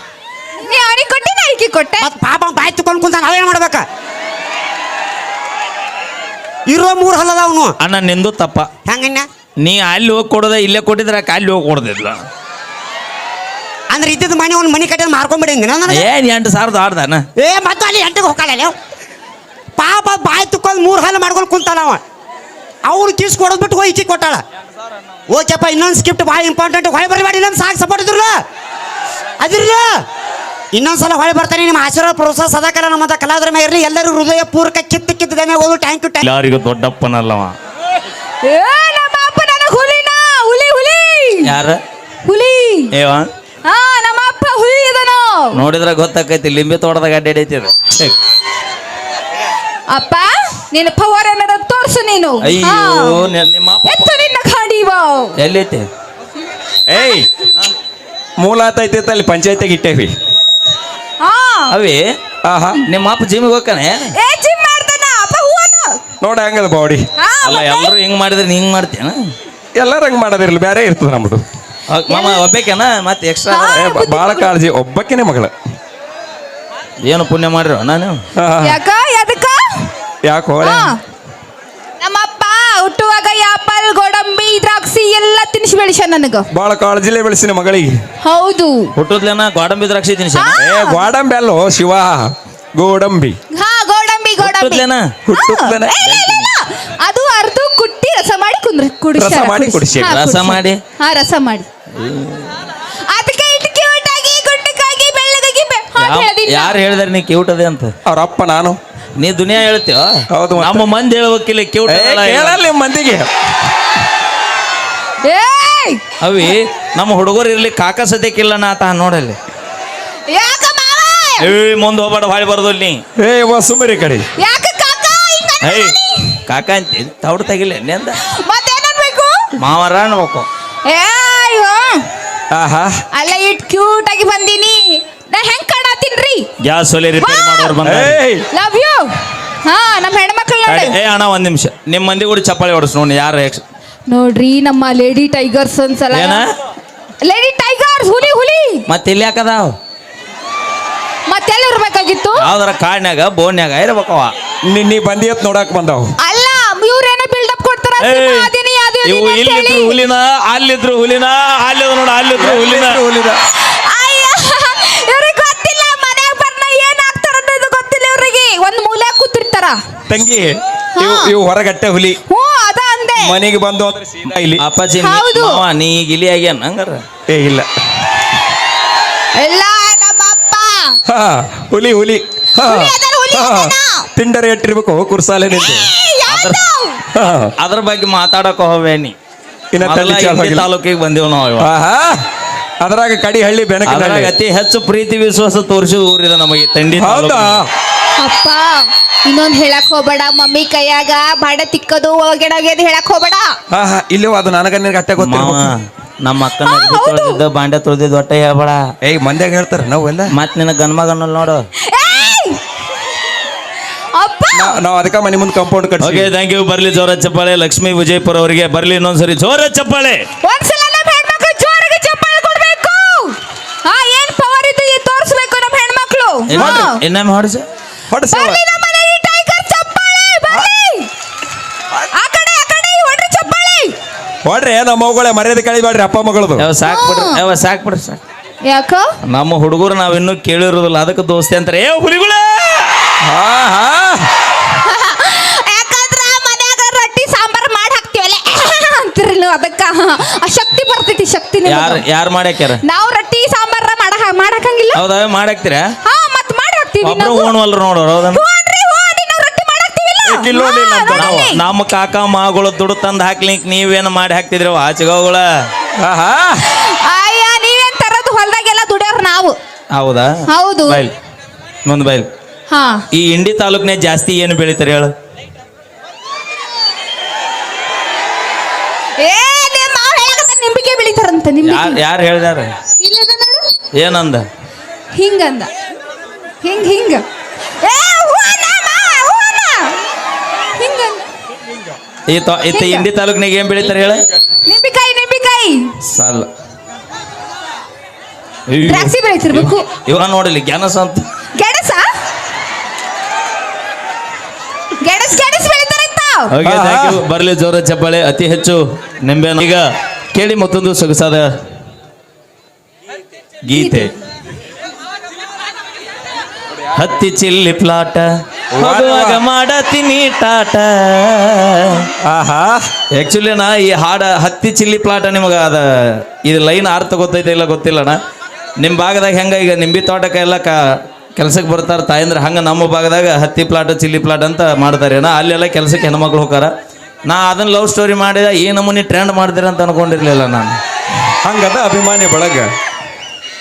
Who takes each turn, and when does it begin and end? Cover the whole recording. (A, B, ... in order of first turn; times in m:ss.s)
0:00.6-0:02.1 A
0:02.0-0:03.8 B
0:06.7-0:07.7 B
0:07.8-0:08.7 C
0:08.9-0:09.3 B
0:09.6-0:12.2 C
0:13.9-0:16.1 B
0:15.9-0:17.2 C
0:17.4-0:18.7 B
0:19.8-0:22.0 B
0:22.8-0:24.4 B
0:25.3-0:28.4 B
0:29.4-0:30.0 B
0:30.7-0:36.2 B
0:36.2-0:37.5 C
0:38.4-0:41.5 A
0:41.4-0:41.8 C
0:42.2-0:42.9 A
0:42.9-0:43.3 C
0:43.6-0:45.5 A
0:45.5-0:48.2 C
0:49.9-0:53.3 A
0:52.4-0:54.1 C
0:53.8-0:55.4 A
0:55.4-0:55.9 C
0:56.9-0:57.3 D
0:58.4-1:00.1 D
1:01.2-1:01.8 A
1:01.7-1:02.0 C
1:02.4-1:02.8 D
1:02.8-1:04.1 C
1:04.2-1:06.0 A
1:06.2-1:07.0 D
1:07.2-1:07.9 A
1:07.4-1:09.2 C
1:09.8-1:11.4 D
1:11.9-1:13.8 C
1:12.1-1:12.5 A
1:13.5-1:14.5 A
1:13.7-1:15.5 D
1:17.0-1:18.2 C
1:18.4-1:18.8 D
1:18.6-1:19.9 A
1:20.2-1:20.9 D
1:20.6-1:21.0 A
1:22.0-1:26.4 A
1:26.5-1:27.9 D
1:28.2-1:28.9 A
1:29.0-1:30.6 C
1:30.3-1:31.0 A
1:30.6-1:33.4 D
1:33.5-1:41.7 A
1:34.4-1:35.1 C
1:35.2-1:36.0 D
1:36.0-1:36.5 C
1:39.2-1:40.2 D
1:40.1-1:40.8 C
1:42.0-1:42.7 C
1:43.1-1:46.8 A
1:46.0-1:47.9 C
1:48.0-1:48.8 D
1:49.2-1:52.6 C
1:50.3-1:50.9 D
1:51.9-1:53.3 D
1:55.2-1:56.0 A
1:56.2-1:59.4 C
2:00.3-2:01.5 A
2:01.4-2:03.0 C
2:03.2-2:04.3 D
2:04.4-2:06.4 A
2:05.6-2:05.9 C
2:06.5-2:08.2 C
2:08.2-2:09.5 A
2:09.6-2:10.5 C
2:10.8-2:12.0 A
2:12.5-2:13.0 D
2:13.1-2:16.5 A
2:16.6-2:18.2 C
2:17.2-2:17.8 A
2:17.8-2:18.4 D
2:18.5-2:19.1 A
2:19.6-2:20.9 A
2:20.6-2:23.6 C
2:24.1-2:26.4 A
2:26.1-2:26.4 C
2:27.2-2:28.8 A
2:28.9-2:29.7 C
2:31.3-2:32.5 A
2:32.4-2:34.3 C
2:34.7-2:36.1 D
2:36.2-2:40.0 A
2:38.0-2:38.5 C
2:39.0-2:43.0 C
2:42.4-2:43.4 D
2:43.6-2:49.8 A
2:50.1-2:52.2 D
2:51.0-2:51.3 A
2:52.3-2:53.4 A
2:53.2-2:54.6 D
2:54.6-2:57.0 C
2:55.0-2:55.6 A
2:57.3-2:57.7 D
2:59.4-3:01.0 A
3:01.1-3:05.9 D
3:02.6-3:04.1 A
3:05.6-3:07.0 A
3:06.3-3:06.6 C
3:07.1-3:07.5 D
3:07.6-3:09.1 C
3:09.7-3:10.7 D
3:09.8-3:11.7 C
3:11.6-3:12.2 D
3:12.8-3:14.3 D
3:13.9-3:17.6 C
3:16.9-3:17.7 D
3:18.2-3:23.5 A
3:23.7-3:25.7 D
3:25.2-3:28.8 C
3:26.6-3:27.4 A
3:29.0-3:30.3 D
3:30.3-3:31.6 C
3:31.9-3:32.6 A
3:34.1-3:34.8 A
3:34.5-3:36.3 D
3:36.0-3:40.2 C
3:40.4-3:47.0 A
3:46.5-3:47.6 C
3:46.5-3:46.9 D
3:48.1-3:48.6 D
3:48.3-3:51.1 A
3:52.1-3:53.9 A
3:54.4-3:56.6 D
3:56.6-3:58.2 C
3:56.8-3:57.4 A
3:58.7-3:59.1 A
3:59.3-4:03.1 C
4:03.2-4:04.3 D
4:04.7-4:12.0 A
4:11.6-4:12.8 C
4:12.8-4:15.0 A
4:14.9-4:15.8 C
4:16.0-4:17.5 A
4:17.0-4:18.4 C
4:18.3-4:21.6 A
4:20.2-4:21.5 D
4:21.1-4:25.4 C
4:26.0-4:26.7 D
4:26.7-4:29.6 A
4:29.9-4:30.3 C
4:30.5-4:31.0 A
4:30.8-4:31.1 C
4:31.8-4:32.3 C
4:32.7-4:33.0 A
4:33.1-4:35.1 C
4:39.2-4:42.0 A
4:41.6-4:42.7 C
4:43.0-4:43.7 A
4:44.0-4:44.4 C
4:45.1-4:45.7 A
4:46.6-4:47.2 A
4:47.8-4:50.0 A
4:50.8-4:51.2 A
4:52.3-4:54.2 C
4:52.7-4:53.1 A
4:54.6-4:55.9 A
4:56.1-4:56.5 C
4:58.7-5:01.2 C
4:58.8-4:59.9 A
5:01.6-5:02.1 A
5:05.0-5:06.5 A
5:06.5-5:09.8 C
5:06.6-5:07.2 D
5:10.3-5:11.5 C
5:13.6-5:14.1 C
5:13.7-5:14.1 A
5:17.0-5:22.1 C
5:18.7-5:19.4 D
5:22.2-5:22.9 D
5:23.1-5:28.2 C
5:28.8-5:30.7 C
5:31.4-5:36.7 C
5:37.2-5:40.7 C
5:41.4-5:42.7 D